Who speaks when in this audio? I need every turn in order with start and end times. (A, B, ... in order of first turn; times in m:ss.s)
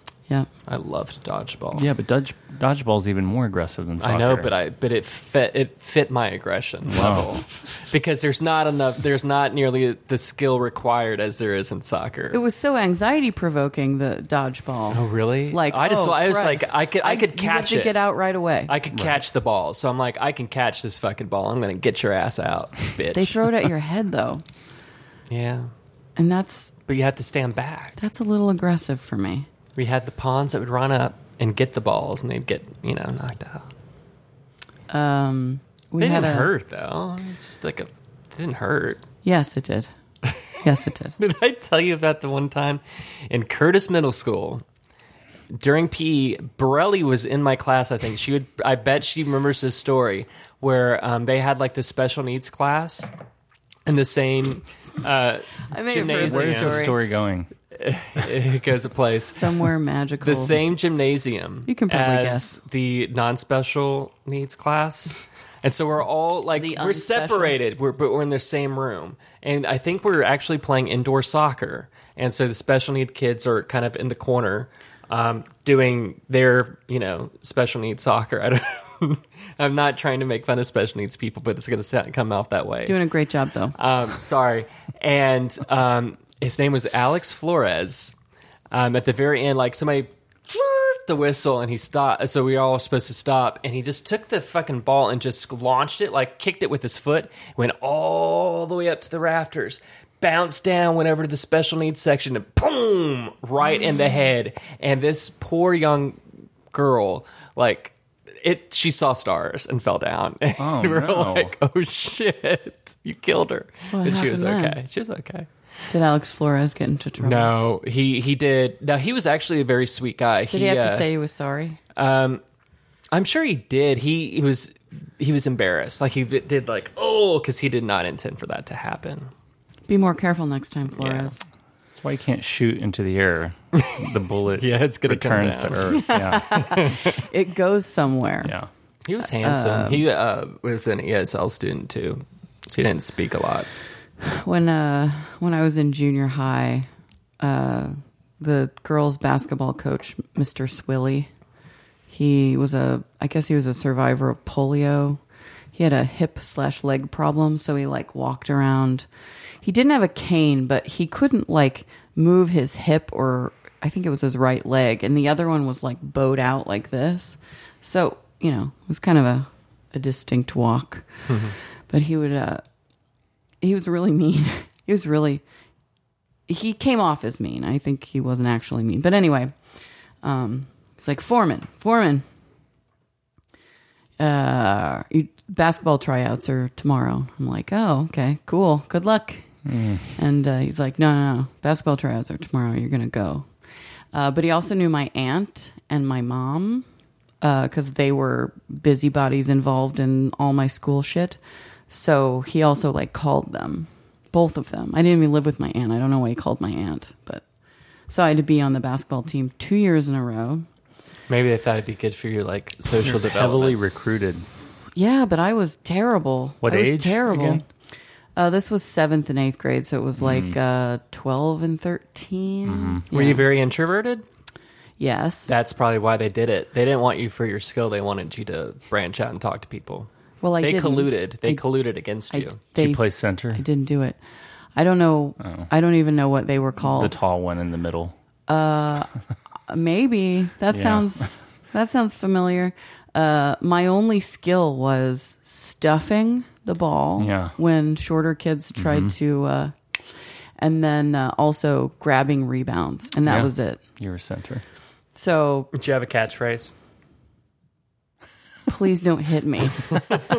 0:00.7-0:01.9 A
0:01.8-0:04.5 B
0:04.0-0:12.4 A
0:06.9-0:07.4 B
0:12.3-0:18.7 C
0:14.9-0:18.0 A
0:18.7-0:23.6 A
0:18.9-0:19.2 B
0:23.1-0:24.4 C
0:25.3-0:25.7 A
0:26.2-0:26.7 C
0:26.9-0:28.0 A
0:28.0-0:29.5 C
0:29.8-0:33.7 A
0:34.9-0:36.5 C
0:36.0-0:39.0 A
0:39.2-0:39.9 C
0:40.6-0:41.2 C
0:41.2-0:44.6 A
0:45.5-0:53.1 A
0:53.9-0:56.9 A
0:55.7-0:57.0 C
0:56.1-0:57.5 B
0:57.7-1:23.0 A
0:59.3-1:00.6 C
1:01.7-1:02.5 C
1:06.6-1:07.6 C
1:22.8-1:23.8 C
1:23.8-1:28.2 A
1:28.7-1:46.2 A
1:46.7-1:55.5 A
1:50.6-1:51.5 B
1:53.9-1:54.8 C
1:55.9-1:57.5 C
1:57.2-2:01.1 A
2:00.5-2:01.8 C
2:02.0-2:02.4 A
2:03.1-2:09.3 A
2:09.9-2:11.4 C
2:11.0-2:11.4 A
2:12.0-2:16.7 B
2:13.7-2:17.1 A
2:15.9-2:18.5 C
2:18.4-2:18.7 B
2:19.0-2:23.7 A
2:19.4-2:20.0 C
2:24.2-2:26.9 C
2:27.4-2:31.3 C
2:32.1-2:35.2 C
2:35.7-2:39.1 C
2:39.6-2:51.1 C
2:51.3-2:51.6 A
2:51.9-2:52.6 C
2:53.6-2:55.4 C
2:56.5-2:59.6 C
3:00.2-3:02.2 C
3:04.2-3:09.5 C
3:09.7-3:10.1 B
3:10.2-3:13.5 C
3:14.1-3:16.9 C
3:17.4-3:21.4 C
3:21.9-3:27.4 C
3:28.1-3:30.7 C
3:31.3-3:33.8 A
3:33.0-3:34.5 B
3:35.0-3:37.6 C
3:36.6-3:37.6 B
3:38.4-3:43.4 C
3:40.2-3:40.6 B
3:42.6-3:43.0 B
3:43.1-3:44.2 A
3:45.0-3:45.5 C
3:45.5-3:50.1 A
3:50.4-3:51.6 C
3:50.6-3:52.6 A
3:52.3-3:54.2 C
3:52.8-3:53.6 B
3:54.8-3:57.2 C
3:55.4-3:55.7 B
3:56.8-3:58.2 B
3:58.5-3:59.1 C
3:59.7-4:09.7 C
4:00.7-4:01.2 B
4:07.2-4:07.5 B
4:08.8-4:09.2 B
4:10.6-4:13.8 C
4:13.2-4:14.6 B
4:15.2-4:15.7 C
4:15.7-4:16.7 A
4:18.7-4:20.0 C